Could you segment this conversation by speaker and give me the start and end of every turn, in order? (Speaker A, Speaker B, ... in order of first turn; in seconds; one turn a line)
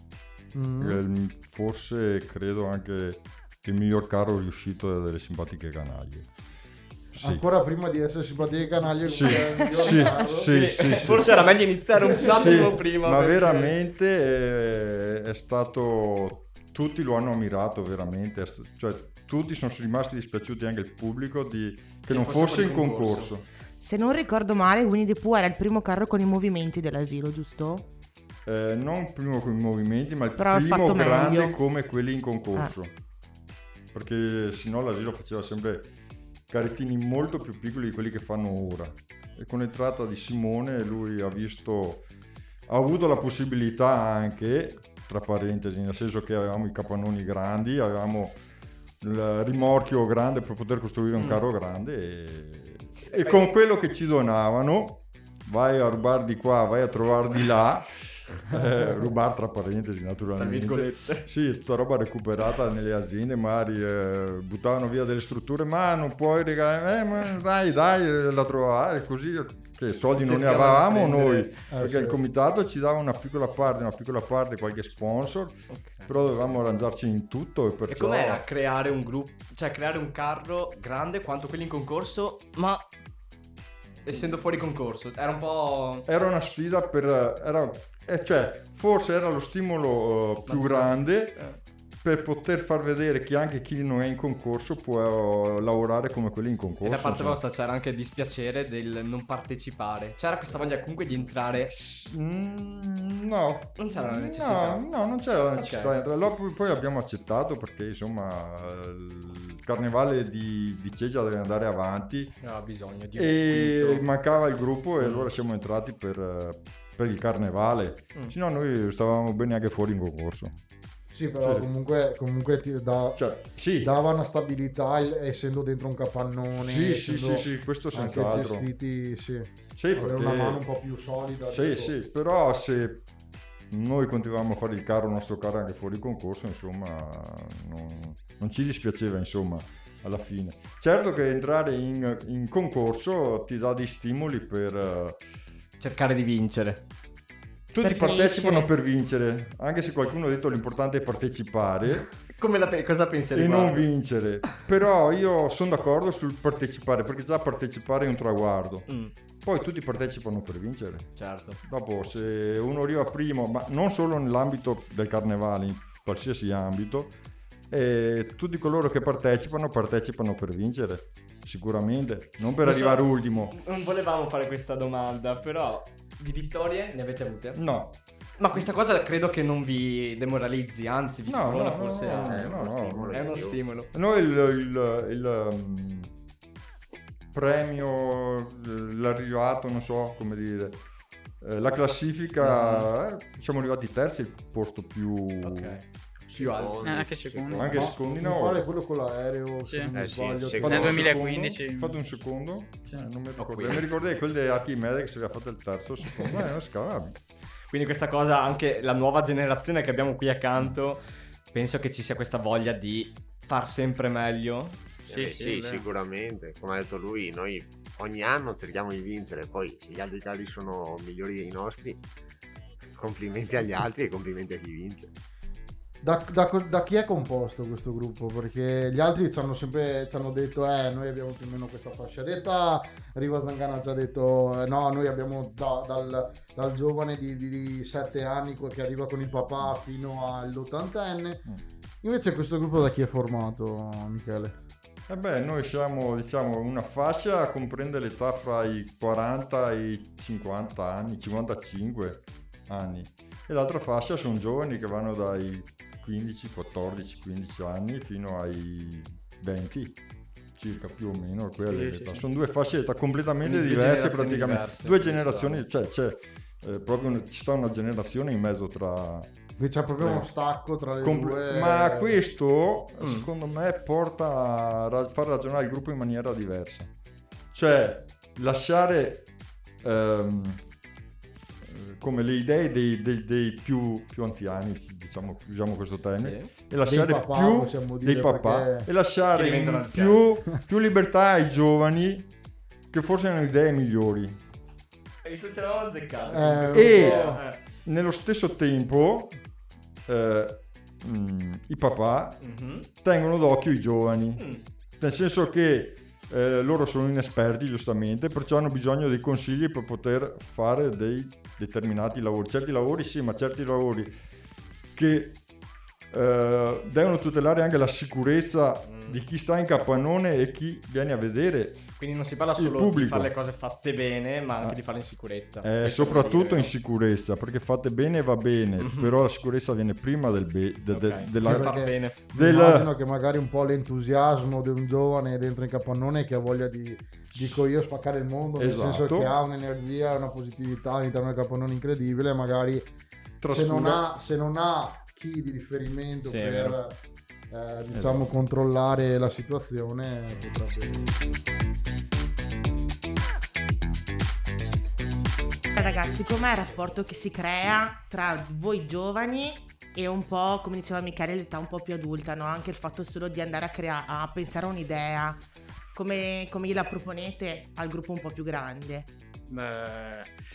Speaker A: 0.5-1.0
Speaker B: 0.8-6.3
Speaker B: 7.1-7.4
Speaker A: 7.2-10.5
Speaker B: 9.1-11.5
Speaker C: 9.2-13.7
Speaker B: 12.2-23.4
Speaker C: 22.1-23.3
Speaker D: 23.8-27.9
Speaker B: 28.4-32.9
Speaker D: 30.4-31.6
Speaker B: 33.9-35.9
Speaker B: 36.5-42.0
Speaker B: 42.7-48.4
Speaker B: 49.0-78.4
Speaker C: 51.1-51.4
Speaker C: 53.1-53.4
Speaker C: 60.4-61.3
Speaker C: 70.2-71.5
Speaker A: 71.7-72.2
Speaker C: 75.7-76.5
Speaker C: 77.9-82.9
Speaker C: 84.0-86.1
Speaker B: 86.0-91.5
Speaker C: 90.5-91.6
Speaker B: 92.0-97.4
Speaker C: 96.8-101.7
Speaker B: 101.6-112.3
Speaker C: 103.8-104.8
Speaker C: 105.5-106.0
Speaker C: 112.4-114.1
Speaker B: 113.2-120.6
Speaker C: 115.0-115.3
Speaker A: 121.1-123.2
Speaker B: 121.4-121.7
Speaker B: 123.1-123.9
Speaker A: 123.8-131.9
Speaker B: 126.5-128.7
Speaker B: 129.8-130.6
Speaker B: 131.5-133.0
Speaker B: 133.7-145.2
Speaker C: 145.8-146.8
Speaker B: 147.7-152.1
Speaker D: 147.8-148.7
Speaker C: 152.2-153.9
Speaker B: 153.3-158.9
Speaker C: 158.9-159.1
Speaker B: 159.4-167.1
Speaker C: 161.2-161.6
Speaker B: 167.7-173.6
Speaker C: 172.5-177.6
Speaker B: 177.5-178.0
Speaker C: 178.4-183.9
Speaker B: 181.3-183.1
Speaker E: 182.1-183.6
Speaker B: 183.9-186.1
Speaker B: 187.3-190.8
Speaker B: 191.4-195.8
Speaker C: 192.4-192.9
Speaker C: 195.4-197.4
Speaker E: 196.3-197.7
Speaker F: 196.8-197.9
Speaker B: 197.5-198.6
Speaker A: 197.7-201.1
Speaker F: 199.6-199.9
Speaker E: 199.9-201.1
Speaker B: 200.6-207.2
Speaker F: 200.6-202.0
Speaker C: 203.4-203.9
Speaker C: 206.2-206.4
Speaker C: 207.7-214.8
Speaker E: 215.1-222.0
Speaker F: 215.1-215.8
Speaker E: 222.9-225.1
Speaker A: 226.0-241.4
Speaker A: 242.0-244.6
Speaker B: 245.1-260.0
Speaker B: 260.5-269.3
Speaker C: 261.6-262.2
Speaker C: 263.4-265.6
Speaker A: 269.6-272.1
Speaker B: 270.0-270.3
Speaker B: 271.0-276.9
Speaker C: 273.0-273.3
Speaker B: 277.5-279.3
Speaker B: 279.8-280.6
Speaker B: 281.6-292.3
Speaker C: 286.2-286.5
Speaker A: 286.8-288.9
Speaker C: 289.3-290.2
Speaker B: 292.9-294.4
Speaker C: 295.2-297.6
Speaker A: 296.3-297.4
Speaker B: 296.7-299.4
Speaker B: 300.1-304.4
Speaker C: 302.4-302.9
Speaker C: 304.4-304.6
Speaker B: 305.0-314.1
Speaker B: 314.9-315.4
Speaker B: 316.1-321.9
Speaker C: 318.8-319.2
Speaker C: 321.9-326.7
Speaker B: 322.6-323.3
Speaker B: 325.6-332.9
Speaker C: 328.8-329.1
Speaker C: 330.9-332.1
Speaker A: 331.4-342.8
Speaker B: 337.3-337.7
Speaker B: 338.6-339.3
Speaker B: 343.4-344.0
Speaker A: 343.5-347.0
Speaker C: 346.2-346.8
Speaker A: 347.5-351.0
Speaker B: 347.9-348.4
Speaker D: 355.7-365.4
Speaker D: 365.9-369.1
Speaker F: 369.5-370.3